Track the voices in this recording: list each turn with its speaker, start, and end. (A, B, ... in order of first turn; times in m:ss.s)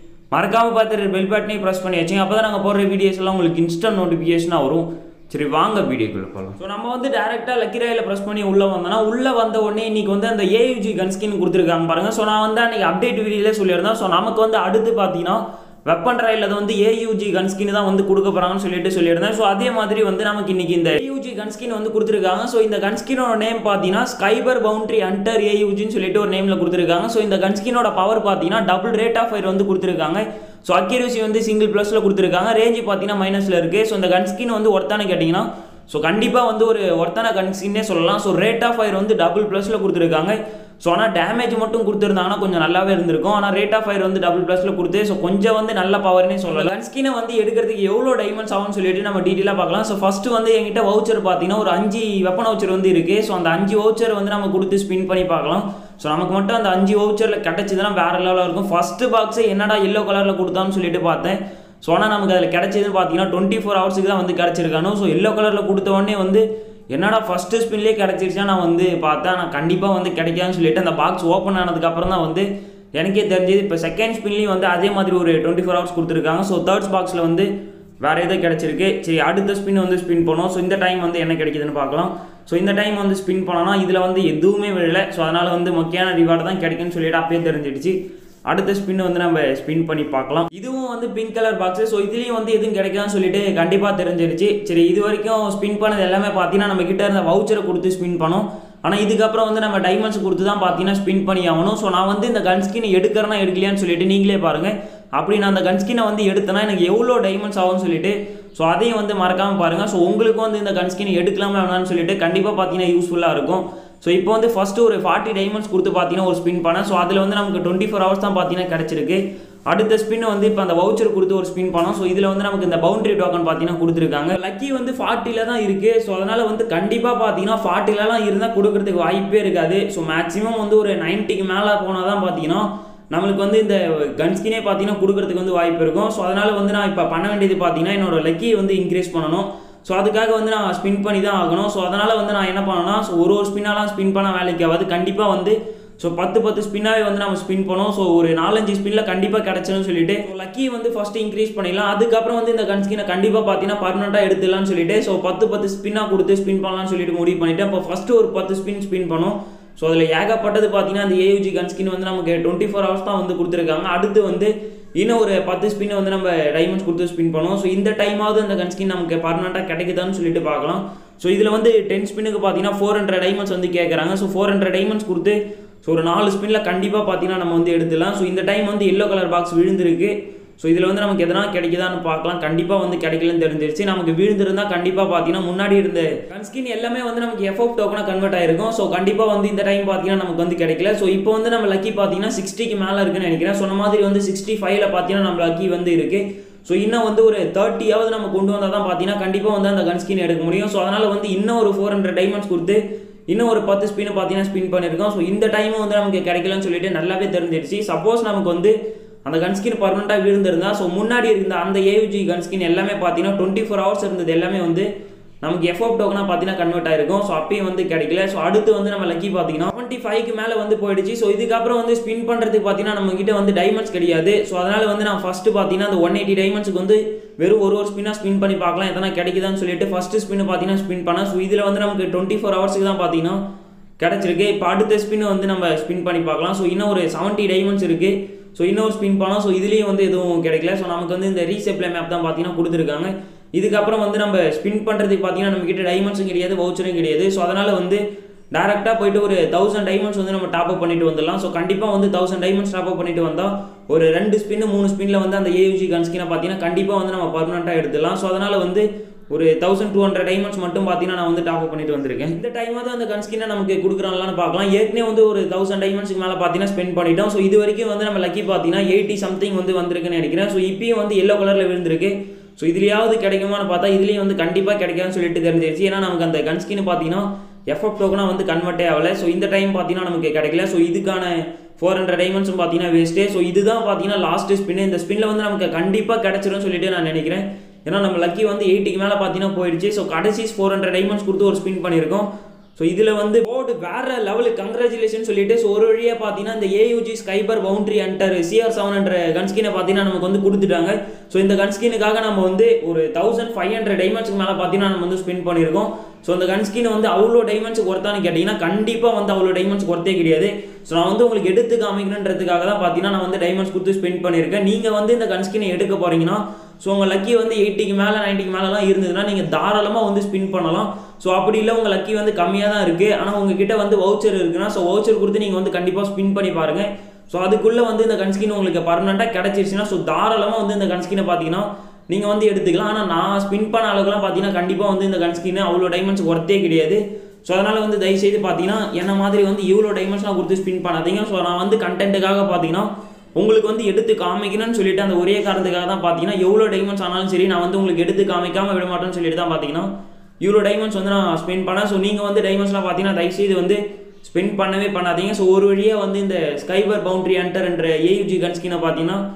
0:00.3-1:17.5 A
1:18.0-3:34.9 A
3:35.4-3:53.4 A
3:54.0-4:08.0 A
4:08.5-5:49.9 A
5:50.4-5:59.2 A